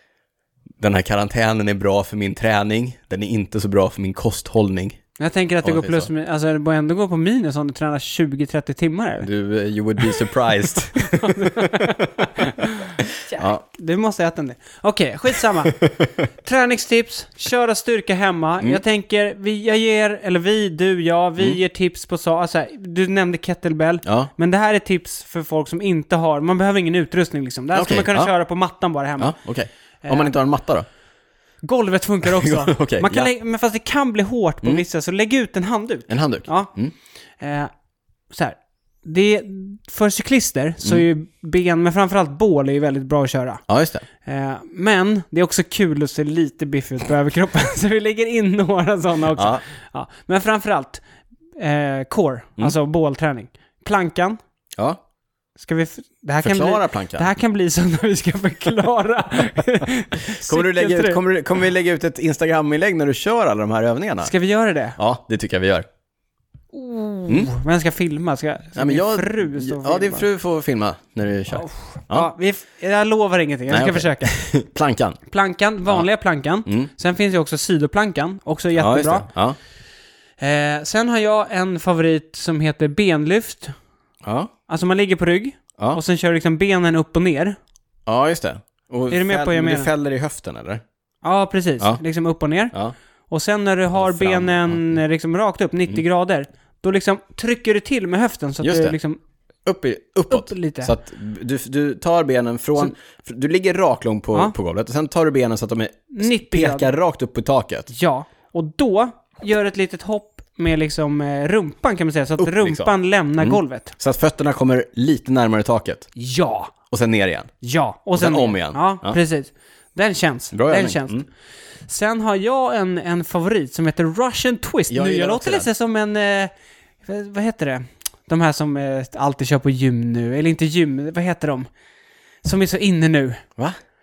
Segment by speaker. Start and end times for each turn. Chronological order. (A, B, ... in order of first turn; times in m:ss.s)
0:00.8-0:05.0 A
0:05.2-0:09.3 B
0:05.6-0:06.1 A
0:09.2-0:12.0 A
0:11.0-0:15.8 B
0:13.0-0:13.6 A
0:15.6-0:16.2 A
0:16.4-0:29.3 B
0:24.0-0:24.3 A
0:27.7-0:28.3 A
0:29.2-0:30.9 A
0:30.0-0:30.3 B
0:31.6-0:36.7 B
0:32.2-0:33.3 A
0:36.1-0:36.9 A
0:37.4-0:37.7 B
0:38.3-0:43.6 B
0:43.7-0:44.0 A
0:44.2-0:51.0 B
0:49.3-0:49.6 A
0:51.6-0:54.4 B
0:55.6-1:01.2 B
0:56.4-0:57.3 A
1:00.2-1:04.3 A
1:04.2-1:05.0 B
1:05.0-1:05.9 A
1:06.7-1:10.3 B
1:08.8-1:12.3 A
1:11.5-1:14.3 B
1:13.7-1:15.2 A
1:15.3-1:19.3 B
1:18.7-1:19.6 A
1:20.4-1:23.8 B
1:24.2-1:24.5 A
1:24.7-1:27.6 B
1:28.1-1:30.8 A
1:29.1-1:29.9 B
1:31.2-1:32.7 B
1:33.3-1:39.2 B
1:34.0-1:34.9 A
1:38.6-1:39.0 A
1:39.6-1:47.9 A
1:40.3-1:40.9 B
1:46.1-1:46.9 B
1:47.9-1:54.0 B
1:52.4-1:56.1 A
1:56.2-1:56.7 B
1:56.9-1:57.5 A
1:57.6-2:01.2 B
1:58.2-1:59.2 A
2:00.5-2:01.2 A
2:01.9-2:06.5 B
2:04.9-2:05.7 A
2:07.0-2:11.7 B
2:12.4-2:13.4 B